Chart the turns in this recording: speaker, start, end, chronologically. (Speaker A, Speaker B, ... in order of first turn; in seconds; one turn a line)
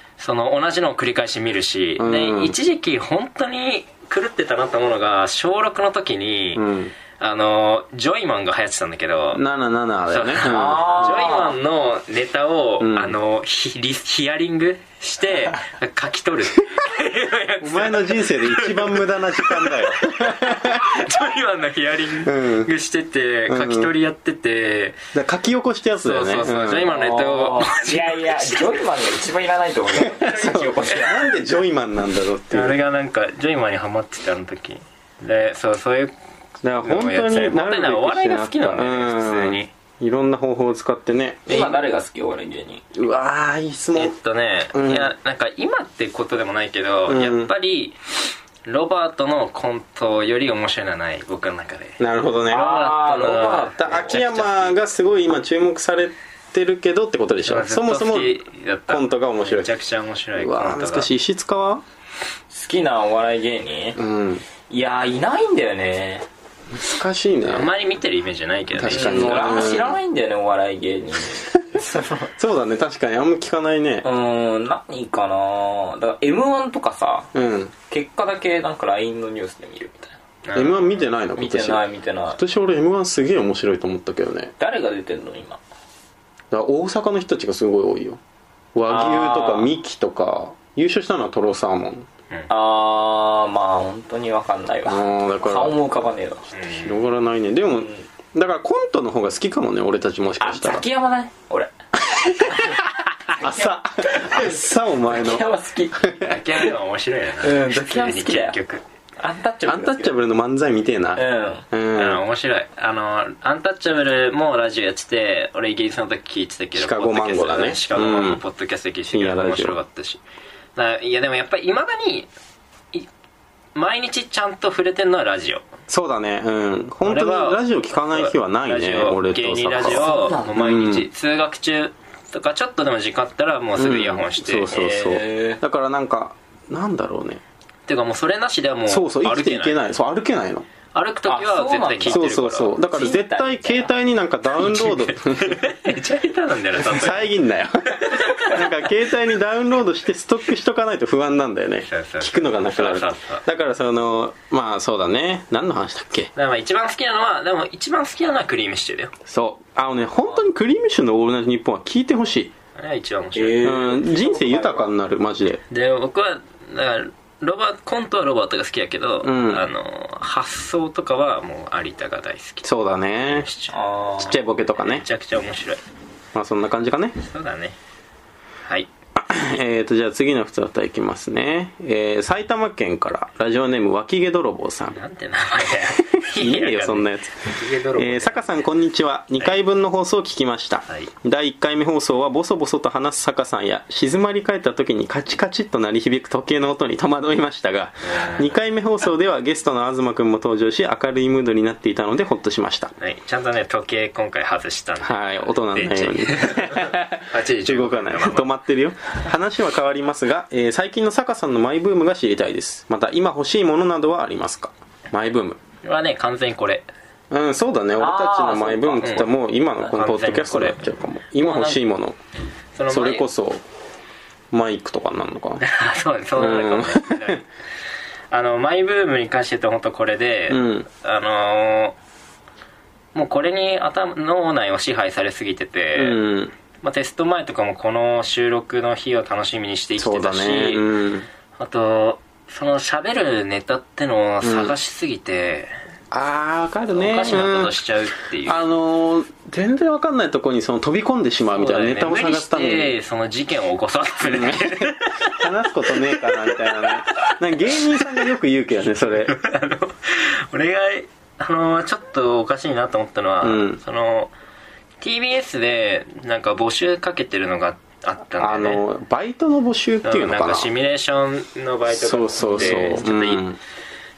Speaker A: 0.2-6.7
Speaker B: 2.0-2.6
Speaker B: 6.5-6.9
Speaker A: 7.2-9.4
Speaker B: 9.3-11.1
Speaker A: 10.1-25.0
Speaker C: 10.4-11.6
Speaker B: 12.8-13.2
Speaker B: 17.6-21.1
Speaker B: 22.2-22.7
Speaker B: 23.5-23.9
Speaker B: 25.1-26.9
Speaker A: 26.0-28.8
Speaker C: 26.8-31.3
Speaker B: 29.9-32.8
Speaker A: 32.5-36.1
Speaker B: 36.6-41.8
Speaker A: 36.8-39.7
Speaker C: 41.5-42.8
Speaker B: 42.9-44.1
Speaker A: 44.0-48.0
Speaker B: 44.7-45.1
Speaker B: 47.1-47.5
Speaker A: 48.7-52.0
Speaker B: 52.0-52.8
Speaker C: 52.5-54.2
Speaker A: 52.5-54.8
Speaker B: 53.8-59.7
Speaker A: 57.5-61.1
Speaker B: 60.4-61.8
Speaker C: 62.5-64.0
Speaker B: 64.0-64.5
Speaker C: 64.7-66.3
Speaker B: 66.7-67.7
Speaker A: 67.5-69.7
Speaker B: 68.7-70.0
Speaker C: 68.9-72.3
Speaker B: 72.4-74.0
Speaker C: 74.0-77.3
Speaker B: 77.3-77.7
Speaker C: 77.9-80.2
Speaker A: 80.5-81.0
Speaker B: 80.5-81.8
Speaker C: 81.4-82.4
Speaker B: 82.3-84.5
Speaker C: 84.6-85.6
Speaker B: 86.5-88.2
Speaker B: 88.8-92.1
Speaker C: 88.9-89.7
Speaker C: 92.5-96.5
Speaker B: 94.9-95.8
Speaker B: 96.5-100.8
Speaker A: 96.5-97.0
Speaker C: 97.8-98.0
Speaker C: 100.4-106.7
Speaker B: 102.4-102.8
Speaker B: 103.3-106.4
Speaker A: 106.2-108.8
Speaker C: 107.4-108.6
Speaker C: 109.2-110.2
Speaker B: 109.7-112.2
Speaker C: 111.2-111.7
Speaker A: 112.0-120.2
Speaker B: 116.8-118.4
Speaker B: 119.1-119.8
Speaker A: 120.8-122.3
Speaker A: 123.8-125.7
Speaker B: 125.9-131.1
Speaker A: 127.0-134.9
Speaker C: 129.8-130.5
Speaker B: 133.8-137.4
Speaker C: 134.7-135.6
Speaker A: 137.9-139.8
Speaker B: 138.9-140.7
Speaker A: 140.9-142.8
Speaker C: 141.3-142.3
Speaker B: 142.1-145.6
Speaker C: 142.9-143.9
Speaker A: 144.6-147.3
Speaker B: 146.8-156.3
Speaker A: 148.0-148.7
Speaker A: 151.9-153.4
Speaker A: 156.4-159.1
Speaker B: 159.3-162.5
Speaker A: 162.8-163.8
Speaker C: 163.3-164.9
Speaker B: 163.6-165.6
Speaker A: 165.7-173.8
Speaker B: 169.2-169.6
Speaker B: 172.6-173.5
Speaker C: 173.7-174.4
Speaker B: 174.2-175.1
Speaker A: 174.8-175.8
Speaker B: 176.3-177.2
Speaker A: 177.2-177.8
Speaker B: 179.2-185.0
Speaker A: 184.9-188.6
Speaker B: 186.0-202.9
Speaker A: 198.1-198.5
Speaker A: 203.0-208.5
Speaker B: 205.0-215.6
Speaker A: 215.8-216.9
Speaker B: 217.3-222.2
Speaker C: 218.0-219.3
Speaker A: 219.0-220.8
Speaker A: 221.4-221.8
Speaker A: 222.8-223.2
Speaker B: 222.9-223.6
Speaker B: 224.5-225.6
Speaker A: 225.6-227.4
Speaker B: 226.4-227.4
Speaker A: 228.3-232.0
Speaker B: 230.5-230.9
Speaker A: 233.2-236.2
Speaker B: 236.0-236.5
Speaker A: 236.8-240.9
Speaker B: 240.0-241.3
Speaker A: 241.6-245.8
Speaker B: 244.4-244.8
Speaker B: 246.1-247.7
Speaker A: 246.9-248.6
Speaker B: 248.4-252.9
Speaker A: 251.5-258.1
Speaker B: 254.2-259.3
Speaker A: 259.1-264.3
Speaker B: 263.4-263.8
Speaker A: 265.0-268.8
Speaker B: 268.4-270.7
Speaker A: 270.0-273.5
Speaker B: 271.9-273.6